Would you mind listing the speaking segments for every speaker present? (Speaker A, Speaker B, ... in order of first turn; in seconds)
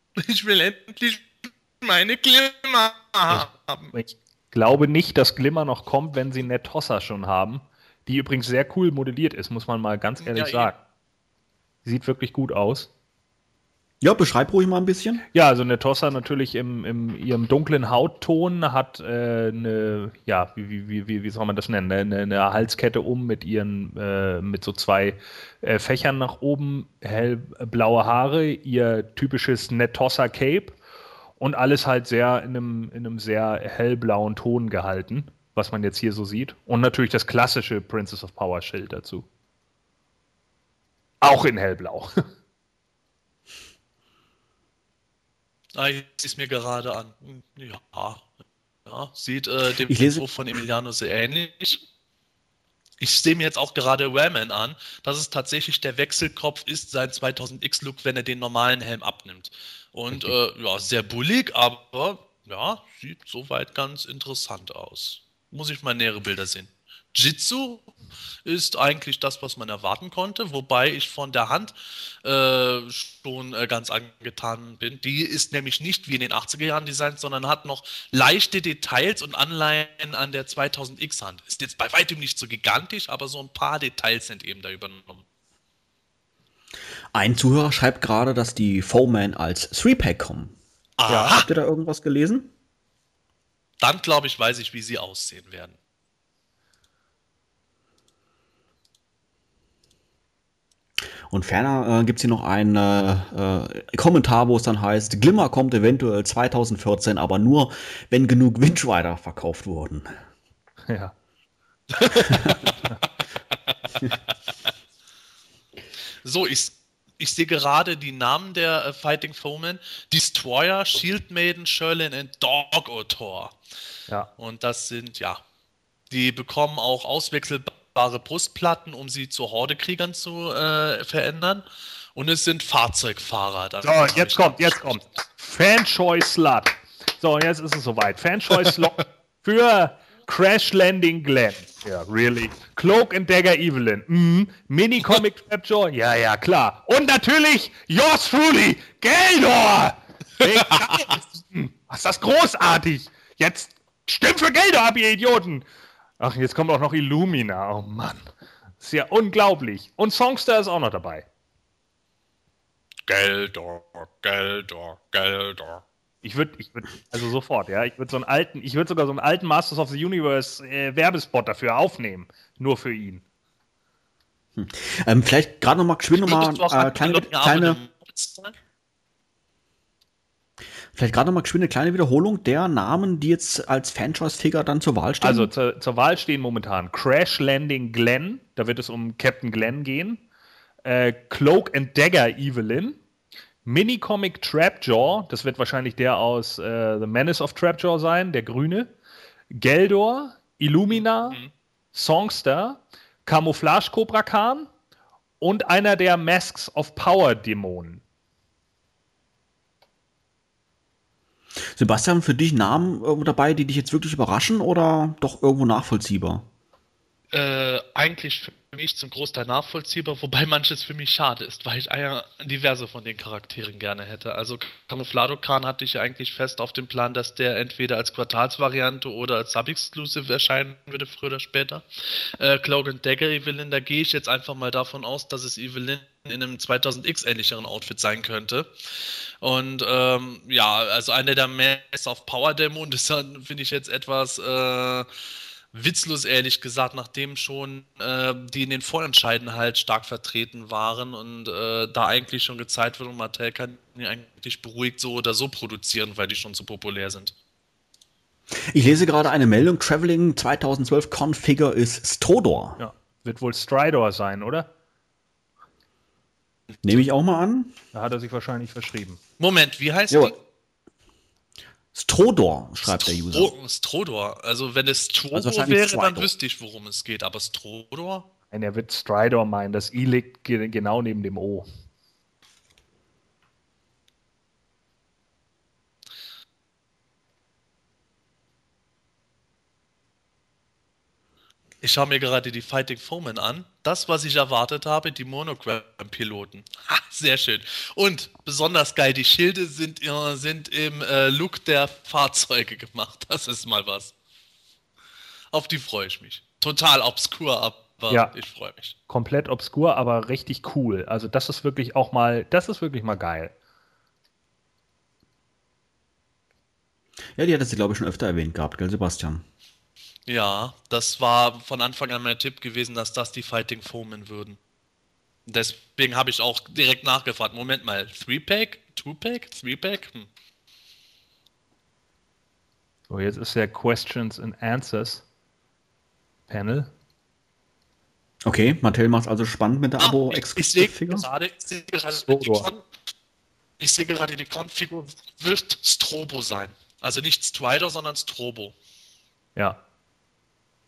Speaker A: 0.2-3.9, 10.2-10.7, 45.7-48.2, 48.9-51.8, 53.0-67.9, 68.4-85.2, 91.0-91.5, 93.8-95.8, 111.9-112.7, 116.2-123.5, 124.4-125.4, 126.1-131.6, 132.1-134.9, 163.1-165.8, 176.2-178.5, 201.2-201.5, 217.3-238.7, 239.4-245.1, 245.7-257.3, 269.4-270.3, 272.8-278.3, 291.8-304.1, 305.5-308.9, 320.3-324.6, 325.5-330.3, 340.0-342.9, 343.8-348.7
Speaker B: 3.3-10.8, 11.8-12.9, 15.3-30.8, 31.4-39.3, 41.2-42.1, 91.1-91.3, 110.9-111.1, 133.8-155.7, 156.2-158.2, 158.8-161.2, 166.2-173.2, 185.2-190.2, 190.8-193.0, 193.6-198.9, 199.5-201.4, 201.9-204.7, 205.4-208.0, 262.8-264.7, 267.9-269.2, 278.5-281.6, 309.1-313.5, 333.1-335.2, 336.5-336.9, 342.3-342.7
Speaker C: 14.0-15.2, 49.9-50.3, 87.1-90.5, 91.3-92.5, 101.3-110.1, 112.3-112.5, 174.6-177.8, 180.9-185.5, 211.7-216.4, 258.7-262.8, 266.8-267.7, 271.9-273.5, 275.3-276.3, 317.4-319.4, 338.4-341.2